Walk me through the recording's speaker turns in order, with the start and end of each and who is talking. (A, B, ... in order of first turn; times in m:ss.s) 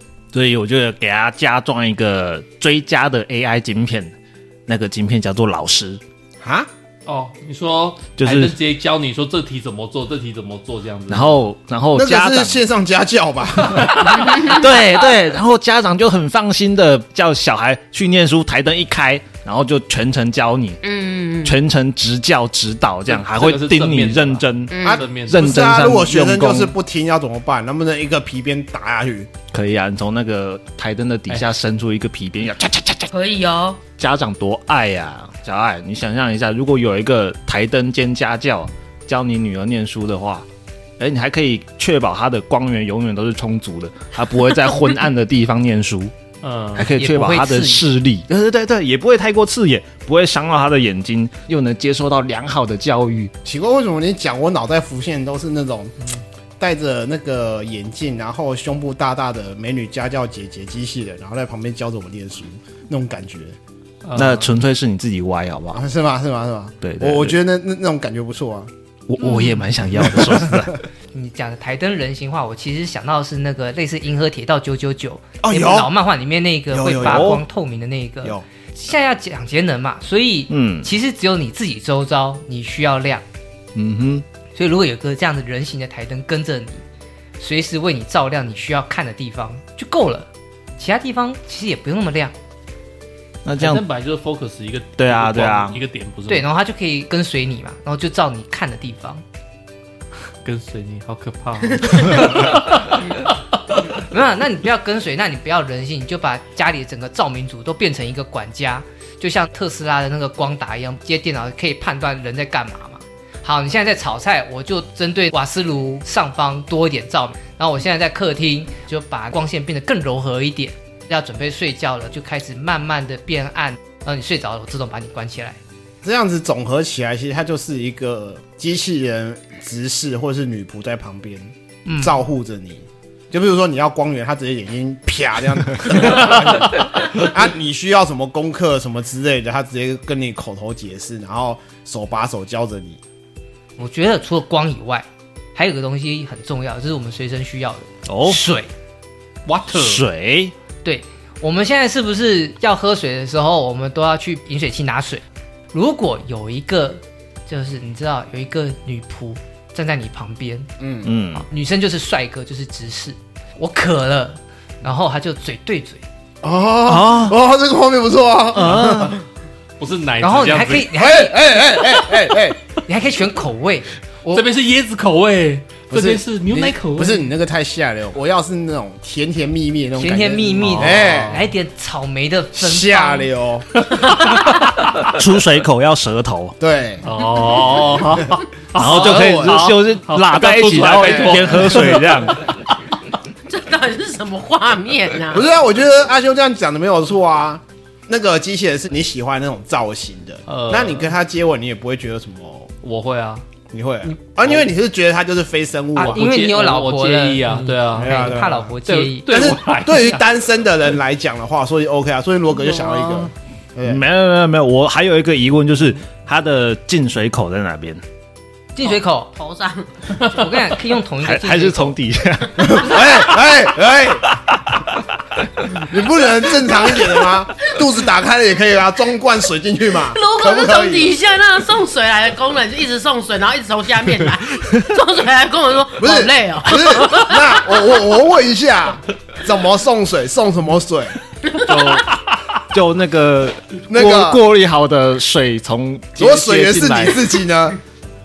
0:00.3-0:04.1 A
0:04.7-0:06.0 A
0:06.4-0:06.7 B
0:07.1-0:11.4 C
0:08.2-0:08.6 A
0:11.1-0:12.6 A
0:11.9-0:14.2 B
0:13.9-0:20.8 A
0:14.3-0:14.6 D
0:20.8-0:21.6 D
0:21.4-0:26.7 A
0:23.1-0:25.4 C
0:24.7-0:25.1 D
0:24.8-0:29.3 B
0:29.5-0:33.1 A
0:33.1-0:33.8 D
0:34.0-0:40.5 A
0:41.0-0:46.1 A
0:46.4-0:46.9 C
0:46.8-0:53.3 A
0:47.0-0:47.9 E
0:53.4-0:56.1 B
0:56.6-1:03.6 B
1:04.0-1:04.5 C
1:04.2-1:05.8 A
1:05.7-1:08.7 B
1:06.8-1:07.4 A
1:09.1-1:10.8 A
1:11.1-1:23.2 E
1:15.4-1:15.9 B
1:16.7-1:17.4 B
1:17.0-1:17.4 A
1:20.5-1:20.9 A
1:23.8-1:24.2 A
1:24.6-1:26.8 E
1:27.4-1:32.3 E
1:33.4-1:33.8 A
1:33.6-1:36.5 C
1:35.0-1:35.8 A
1:36.3-1:39.2 E
1:40.4-1:43.3 C
1:43.9-2:05.6 E
2:06.0-2:23.0 B
2:11.9-2:12.2 E
2:23.8-2:28.7 E
2:28.1-2:28.4 A
2:29.5-2:30.0 C
2:29.7-2:30.5 A
2:30.8-2:40.7 E
2:40.8-2:41.1 B
2:41.0-2:41.5 A
2:41.4-2:46.0 E
2:46.4-2:49.2 B
2:46.9-2:47.4 A
2:48.5-2:49.2 A
2:49.8-2:50.9 C
2:50.2-2:51.5 E
2:50.9-2:52.6 B
2:52.9-2:54.5 E
2:54.3-2:57.3 C
2:55.9-3:01.5 B
3:00.0-3:03.3 E
3:00.7-3:01.0 A
3:00.8-3:01.2 C
3:02.5-3:03.7 B
3:03.8-3:05.1 C
3:05.0-3:06.6 A
3:06.6-3:07.1 B
3:07.0-3:12.6 C
3:08.8-3:12.5 A
3:08.8-3:09.6 B
3:11.1-3:11.6 B
3:13.5-3:15.5 D
3:15.3-3:22.7 B
3:20.5-3:21.1 C
3:22.8-3:23.4 C
3:23.7-3:26.3 B
3:26.0-3:29.4 E
3:26.0-3:30.2 C
3:27.9-3:28.8 B
3:29.3-3:34.0 B
3:32.6-3:33.3 C
3:33.8-3:38.0 A
3:38.8-3:39.3 E
3:38.8-3:40.6 D
3:40.2-3:42.0 E
3:41.2-3:43.4 A
3:42.6-3:44.3 B
3:44.3-3:45.9 A
3:45.7-3:51.2 B
3:49.9-3:58.0 D
3:56.0-4:01.2 B
4:01.6-4:02.1 A
4:01.7-4:02.0 C
4:02.7-4:07.2 A
4:03.9-4:04.4 B
4:06.2-4:07.8 B